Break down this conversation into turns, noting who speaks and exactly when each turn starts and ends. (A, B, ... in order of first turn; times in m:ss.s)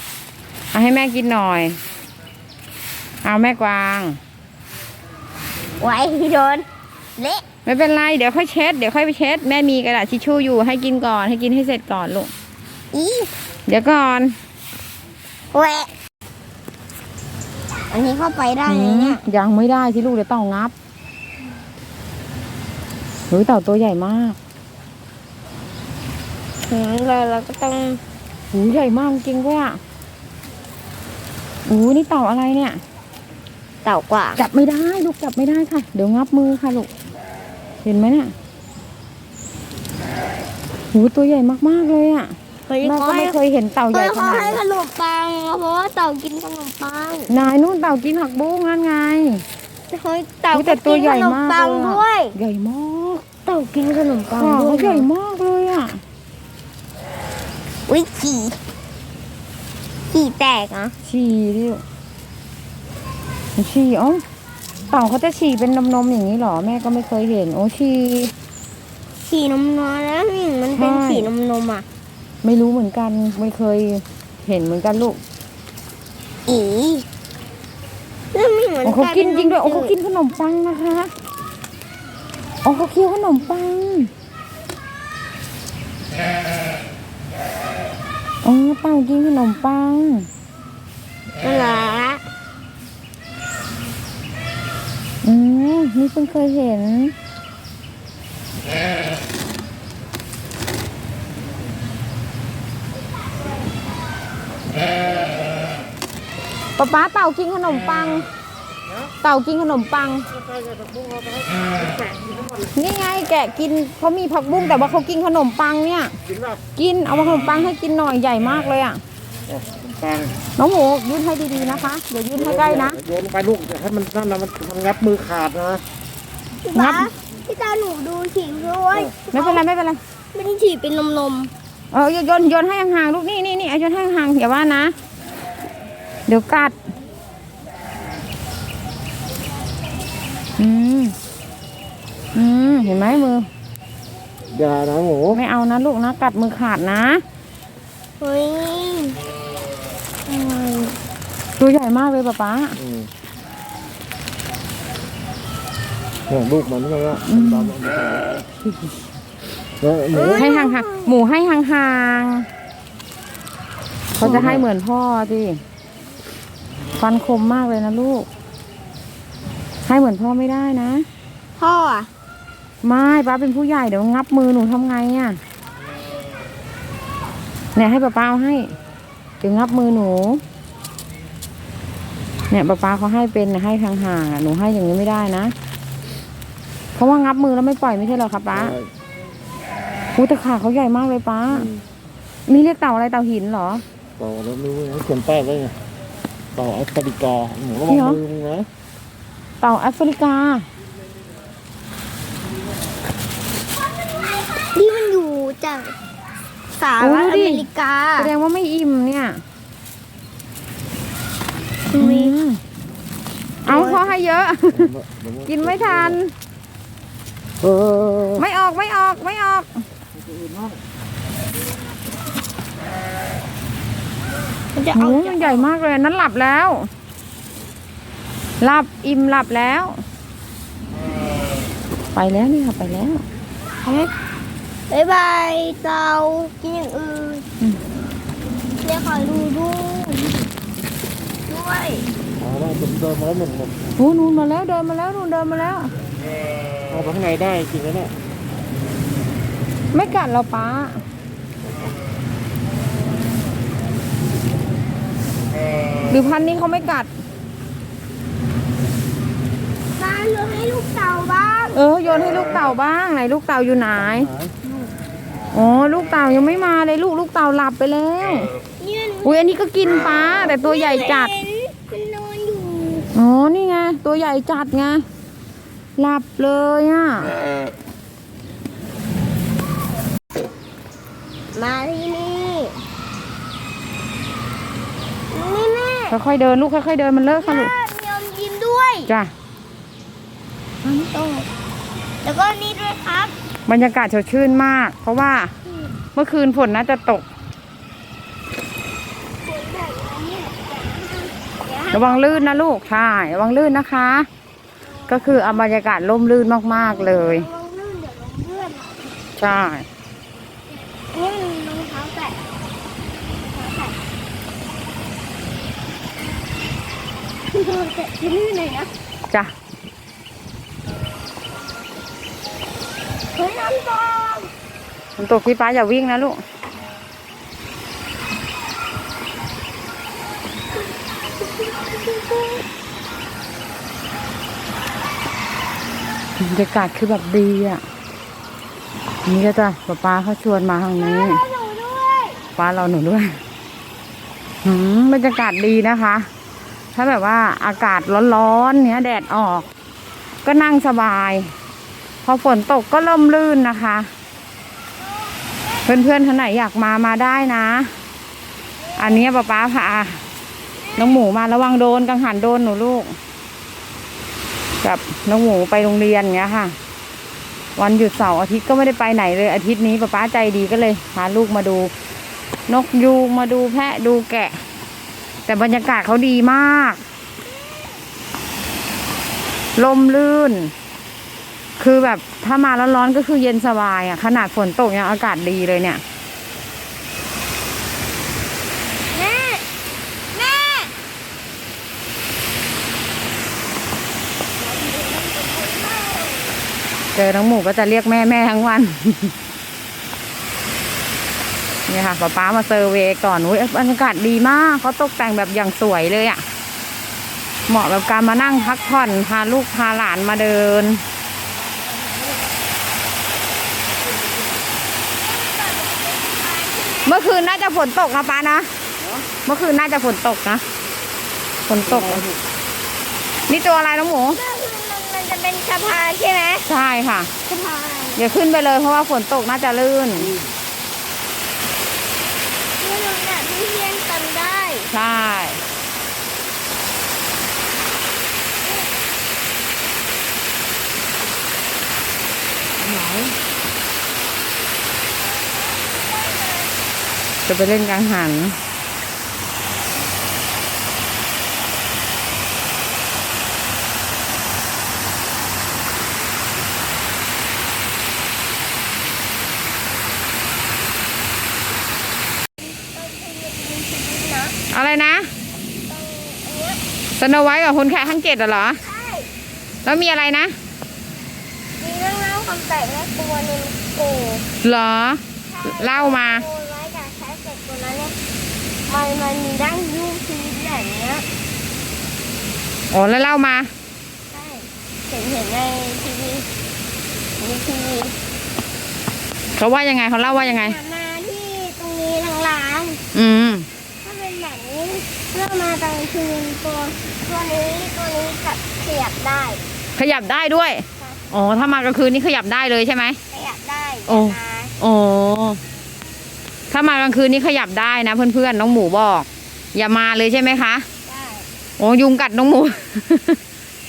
0:00.7-0:01.8 A
0:03.2-0:04.2 A
0:05.8-0:06.7 B
0:07.2-0:07.4 B
0:07.6-0:12.3 A
0:12.9-0:13.3 B
0:13.7-0:14.4 A
0:15.5-0:15.9 B
0:17.9-0:19.2 B
0:18.7-0:20.7 A
0:23.3-0:24.4 A
0:26.7-0:28.0 B
0:28.5-0:29.8 A
0:31.7-0:32.8 A
0:33.8-0:34.4 B
0:34.4-0:36.9 A
0:37.8-0:38.3 A
0:40.9-0:44.6 A
0:42.7-0:43.4 B
0:43.9-0:47.3 B
0:47.3-0:49.4 A
0:49.9-0:52.4 B
0:50.5-0:53.2 A
0:53.4-0:55.1 B
0:54.4-0:56.0 A
0:57.9-0:58.6 B
1:00.1-1:00.9 B
1:01.0-1:01.8 A
1:03.6-1:04.2 A
1:04.9-1:08.3 A
1:09.2-1:11.8 B
1:10.8-1:11.3 A
1:12.4-1:15.2 A
1:16.5-1:17.0 B
1:18.3-1:19.9 B
1:18.8-1:21.1 A
1:22.6-1:24.1 A
1:28.4-1:30.3 A
1:31.4-1:32.2 B
1:35.2-1:37.1 A
1:46.8-1:48.2 A
1:49.2-1:50.3 A
1:50.3-1:52.7 C
1:52.8-1:56.2 A
1:56.3-1:56.6 C
1:56.8-1:59.0 A
1:59.5-2:00.3 C
2:00.6-2:03.0 A
2:02.4-2:05.8 C
2:06.6-2:09.6 B
2:06.7-2:07.1 A
2:09.3-2:10.0 A
2:10.3-2:11.5 B
2:11.9-2:14.9 A
2:16.3-2:16.8 A
2:20.6-2:21.2 A
2:22.4-2:23.5 A
2:24.5-2:25.4 C
2:25.3-2:27.2 A
2:28.2-2:29.2 B
2:30.3-2:31.0 B
2:31.6-2:32.8 A
2:32.8-2:33.1 C
2:36.3-2:38.4 C
2:37.3-2:37.7 A
2:39.8-2:40.5 C
2:40.1-2:41.1 B
2:40.3-2:42.5 A
2:44.2-2:45.6 A
2:44.2-2:44.7 C
2:47.0-2:48.3 A
2:49.9-2:51.1 A
2:51.6-2:52.1 B
2:52.8-2:55.4 A
2:57.8-2:58.7 A
2:59.4-3:00.4 A
3:02.5-3:05.5 A
3:07.0-3:08.8 A
3:08.5-3:08.9 C
3:10.2-3:11.7 A
3:11.5-3:11.8 C
3:12.5-3:13.8 A
3:14.2-3:15.8 C
3:16.5-3:18.7 C
3:17.9-3:18.2 A
3:19.6-3:20.7 A
3:24.7-3:25.9 B
3:26.8-3:28.3 B
3:27.0-3:27.7 A
3:28.2-3:29.4 A
3:31.9-3:32.3 B
3:32.0-3:32.6 A
3:33.7-3:34.0 B
3:33.7-3:34.9 A
3:34.7-3:36.2 C
3:35.5-3:36.3 A
3:37.6-3:38.4 C
3:38.4-3:39.8 A
3:40.2-3:40.8 C
3:44.8-3:45.7 B
3:44.9-3:46.9 A
3:48.6-3:50.0 A
3:52.2-3:53.2 A
3:53.8-3:54.1 B
3:54.9-3:57.4 B
3:58.8-4:00.4 B
4:01.5-4:02.1 B
4:02.4-4:03.8 C
4:04.0-4:05.9 A
4:06.9-4:08.1 C
4:09.9-4:11.0 A
4:16.1-4:17.1 A
4:20.0-4:21.8 B
4:21.7-4:24.3 A
4:25.5-4:28.5 A
4:28.8-4:29.6 B
4:29.2-4:31.3 A
4:30.4-4:33.1 B
4:33.2-4:35.0 A
4:36.0-4:37.3 A
4:41.5-4:42.8 B
4:45.3-4:46.2 B
4:46.1-4:47.7 A
4:47.4-4:49.1 B
4:50.8-4:51.5 B
4:52.2-4:53.3 B
4:53.7-4:55.5 A
4:56.2-4:57.2 A
4:59.4-5:02.6 B
5:01.9-5:04.3 A
5:04.9-5:05.6 B
5:05.1-5:07.5 A
5:06.7-5:09.2 B
5:09.4-5:09.8 A
5:11.0-5:12.4 B
5:13.4-5:14.0 B
5:17.5-5:18.9 B
5:23.3-5:24.5 B
5:25.2-5:26.4 A
5:30.8-5:32.6 B
5:36.4-5:37.8 A
5:39.3-5:41.4 A
5:41.0-5:42.4 B
5:42.6-5:43.4 A
5:44.6-5:46.3 A
5:47.0-5:49.7 A
5:50.4-5:51.5 A
5:52.2-5:54.1 A
5:55.0-5:56.2 B
5:55.9-5:57.9 A
5:58.8-5:59.2 B
5:59.0-6:00.2 A
6:00.8-6:01.2 B
6:01.0-6:03.2 A
6:04.8-6:06.8 A
6:07.8-6:11.9 A
6:12.7-6:14.6 A
6:15.5-6:17.0 A
6:19.8-6:20.7 A
6:21.8-6:26.0 A
6:29.1-6:29.6 B
6:30.3-6:30.9 B
6:34.6-6:36.6 B
6:37.2-6:39.3 A
6:41.9-6:46.4 A
6:47.7-6:51.0 A
6:48.0-6:49.0 B
6:55.2-6:57.4 B
6:57.1-6:58.7 A
6:59.4-7:00.6 A
7:01.7-7:02.2 A
7:02.0-7:02.3 C
7:03.5-7:04.4 A
7:04.3-7:06.7 B
7:06.7-7:07.3 A
7:07.5-7:08.2 B
7:08.2-7:10.4 A
7:10.2-7:10.5 C
7:12.8-7:14.9 B
7:14.9-7:15.6 A
7:22.8-7:23.4 C
7:25.3-7:26.7 B
7:27.5-7:28.6 A
7:42.6-7:44.6 B
7:44.7-7:45.3 A
7:45.9-7:46.8 B
7:47.2-7:48.8 A
7:48.8-7:49.3 B
7:49.8-7:50.5 A
7:51.8-7:54.5 B
7:54.6-7:56.4 A
7:55.5-7:58.1 B
7:58.9-8:01.2 B
8:02.9-8:03.7 A
8:04.3-8:06.5 B
8:07.4-8:08.1 B
8:09.6-8:10.8 A
8:10.2-8:13.0 B
8:13.1-8:13.7 A
8:14.0-8:19.6 B
8:20.0-8:23.2 A
8:21.0-8:21.3 B
8:23.3-8:24.7 B
8:24.1-8:25.6 A
8:26.7-8:30.9 A
8:31.1-8:31.5 B
8:31.8-8:33.4 A